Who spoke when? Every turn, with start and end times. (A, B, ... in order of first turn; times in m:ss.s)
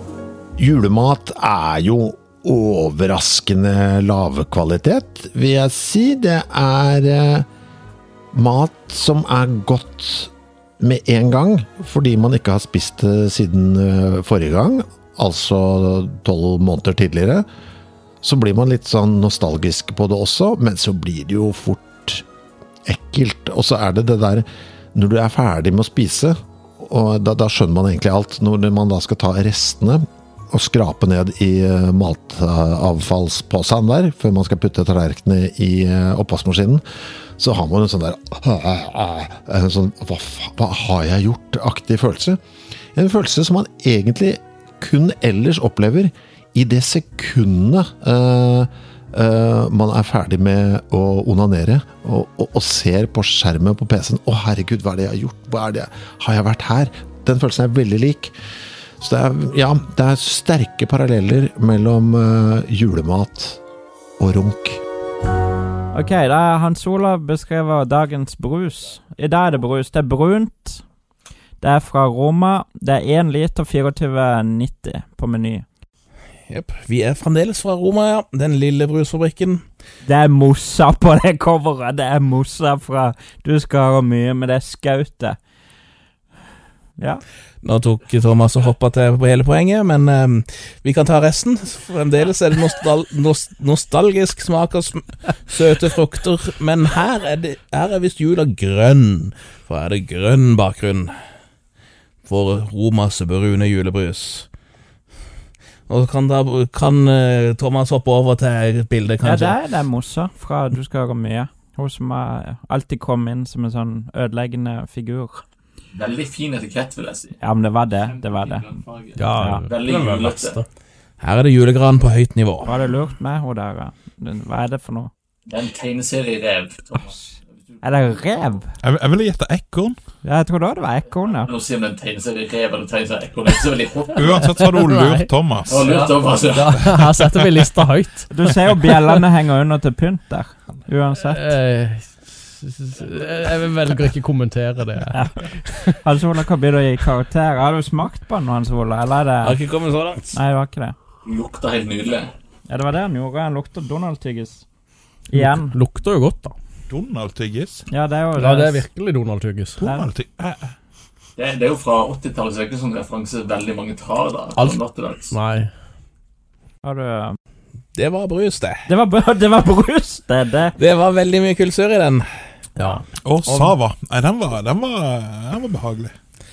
0:00.6-0:07.5 A
0:08.3-0:17.5 A
0:18.2-0:22.2 A
0:22.9-0:36.8 A
0:37.4-0:42.4 A
0:42.9-0:58.3 A
0:59.0-1:03.6 A
1:04.2-1:04.8 A
1:05.9-1:10.8 B
1:11.6-1:15.6 B
1:16.5-1:19.6 C
1:20.0-1:25.4 B
1:27.6-1:41.1 C
1:42.3-1:44.5 C
1:45.9-1:49.6 C
1:49.2-1:55.4 B
1:55.9-1:57.4 D
1:57.4-1:58.7 B
1:58.0-2:00.6 D
1:59.2-2:00.6 E
1:59.4-1:59.6 B
2:01.2-2:02.7 C
2:02.6-2:05.1 B
2:05.5-2:07.2 D
2:07.8-2:08.7 B
2:08.8-2:10.0 F
2:10.2-2:11.5 B
2:11.3-2:14.4 D
2:14.2-2:15.8 F
2:14.5-2:19.2 E
2:15.7-2:17.0 D
2:18.3-2:21.5 B
2:21.3-2:26.0 E
2:25.1-2:25.4 B
2:25.9-2:29.6 B
2:29.4-2:30.4 C
2:30.3-2:31.0 B
2:31.2-2:32.3 D
2:32.7-2:34.7 B
2:35.3-2:35.8 B
2:35.3-2:36.6 E
2:36.9-2:37.8 F
2:37.9-2:38.8 B
2:38.4-2:39.8 E
2:39.8-2:40.1 B
2:39.8-2:40.7 F
2:41.4-2:45.3 D
2:44.6-2:45.7 E
2:46.8-2:47.4 B
2:47.9-2:48.9 C
2:48.9-2:50.8 B
2:50.8-2:52.2 C
2:52.8-2:53.0 E
2:53.2-2:56.1 F
2:53.5-2:53.7 C